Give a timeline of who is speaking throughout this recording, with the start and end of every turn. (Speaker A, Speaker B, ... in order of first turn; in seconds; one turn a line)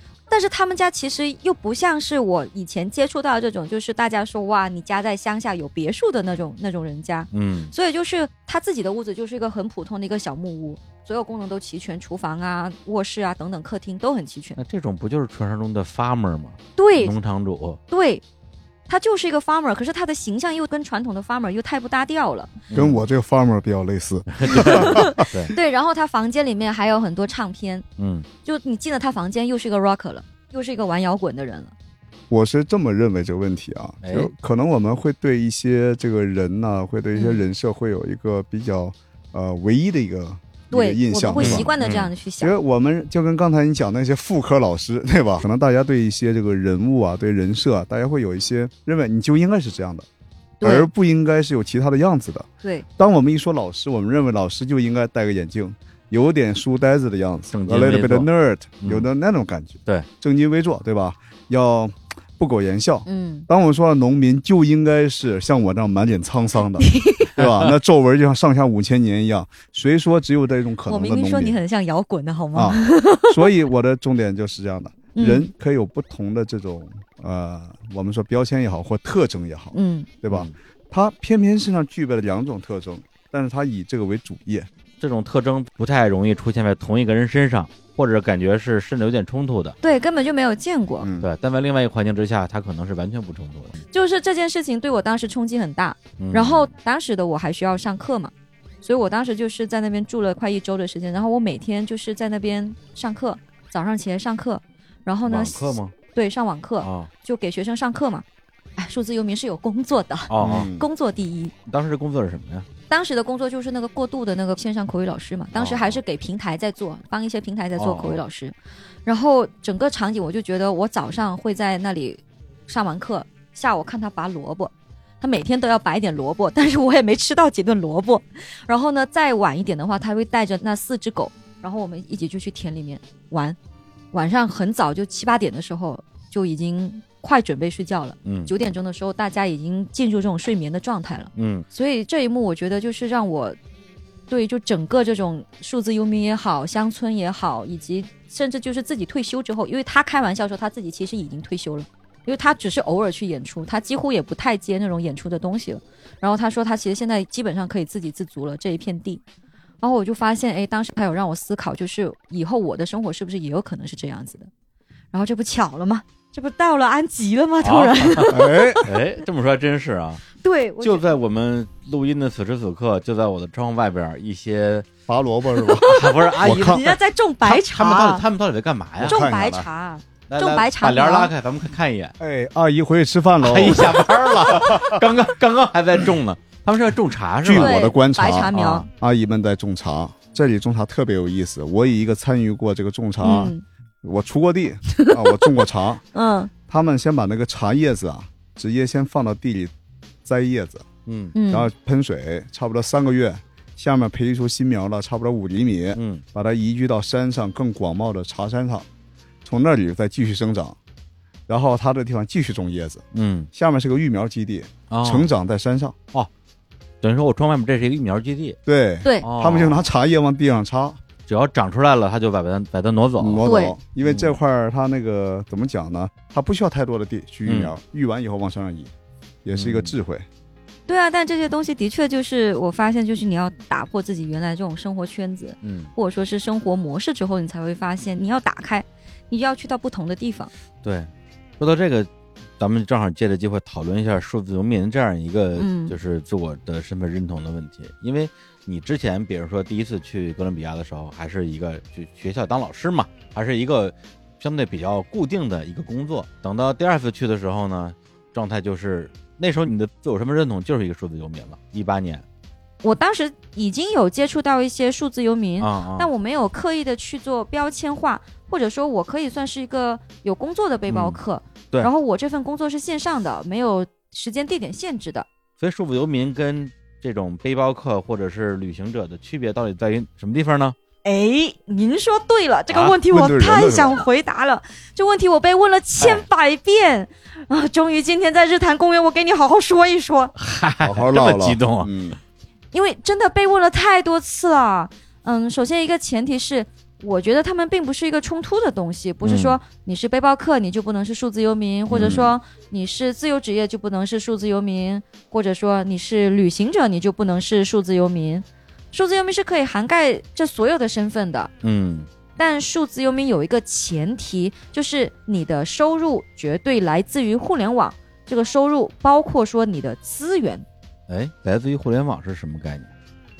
Speaker A: 0.3-14.6
Speaker B: 7.3-7.7
Speaker B: 14.6-17.8
Speaker A: 16.8-17.1
Speaker A: 17.9-18.2
Speaker A: 18.9-22.6
Speaker B: 22.7-23.0
Speaker C: 22.7-25.2
Speaker B: 24.3-25.6
Speaker A: 24.5-27.8
Speaker B: 28.0-28.3
Speaker A: 28.4-31.7
Speaker C: 32.3-41.7
Speaker B: 34.0-34.3
Speaker A: 37.1-37.4
Speaker A: 40.7-42.5
Speaker B: 41.4-42.1
Speaker C: 42.4-50.1
Speaker A: 50.6-50.9
Speaker C: 50.6-71.6
Speaker B: 57.5-58.3
Speaker B: 58.8-59.1
Speaker A: 63.0-63.5
Speaker A: 66.8-67.3
Speaker B: 67.4-67.7
Speaker A: 70.9-73.5
Speaker C: 72.5-84.7
Speaker A: 75.2-75.5
Speaker A: 79.7-80.1
Speaker B: 85.0-89.8
Speaker A: 89.8-91.1
Speaker C: 91.0-91.3
Speaker B: 91.2-93.8
Speaker A: 93.9-98.3
Speaker B: 96.2-96.7
Speaker A: 98.8-108.2
Speaker B: 105.2-105.9
Speaker B: 106.8-107.1
Speaker A: 108.8-111.5
Speaker B: 110.3-110.7
Speaker C: 110.4-110.8
Speaker B: 111.7-112.7
Speaker A: 112.9-118.5
Speaker B: 115.5-116.0
Speaker B: 117.8-118.2
Speaker A: 119.0-133.6
Speaker A: 134.1-143.6
Speaker B: 138.2-138.5
Speaker B: 141.3-141.7
Speaker A: 144.3-159.2
Speaker A: 159.8-164.5
Speaker A: 165.1-168.8
Speaker B: 167.6-170.2
Speaker C: 168.3-168.9
Speaker A: 170.4-171.1
Speaker B: 170.8-174.9
Speaker C: 175.1-176.8
Speaker A: 175.7-178.2
Speaker B: 175.8-179.2
Speaker C: 179.0-179.7
Speaker A: 179.0-181.3
Speaker B: 180.3-182.1
Speaker C: 182.2-185.0
Speaker B: 183.4-187.8
Speaker C: 187.4-196.0
Speaker A: 187.5-188.9
Speaker B: 188.5-188.8
Speaker A: 193.2-193.6
Speaker A: 195.0-195.5
Speaker A: 196.1-196.5
Speaker C: 196.7-199.7
Speaker C: 200.2-200.9
Speaker B: 201.1-201.3
Speaker A: 201.3-201.7
Speaker C: 201.5-208.8
Speaker B: 205.9-206.2
Speaker C: 209.4-210.8
Speaker C: 211.5-216.0
Speaker B: 213.1-213.5
Speaker B: 214.9-215.3
Speaker B: 217.0-218.6
Speaker C: 218.7-221.0
Speaker B: 219.2-219.9
Speaker B: 221.3-223.4
Speaker C: 223.2-228.9
Speaker A: 223.4-223.8
Speaker B: 224.0-224.4
Speaker B: 227.4-227.7
Speaker C: 229.4-230.2
Speaker B: 229.5-229.9
Speaker A: 230.9-240.5
Speaker B: 235.6-235.9
Speaker B: 240.8-241.1
Speaker B: 241.6-262.2
Speaker A: 245.6-246.0
Speaker A: 262.8-275.3
Speaker B: 265.6-266.1
Speaker B: 270.9-271.2
Speaker B: 275.6-280.8
Speaker A: 281.1-290.3
Speaker B: 282.7-283.0
Speaker C: 283.1-284.1
Speaker B: 290.4-291.9
Speaker C: 290.8-292.2
Speaker A: 292.7-311.5
Speaker B: 299.2-299.6
Speaker B: 301.9-302.2
Speaker C: 301.9-302.3
Speaker B: 311.6-312.1
Speaker A: 312.4-320.6
Speaker B: 321.1-322.9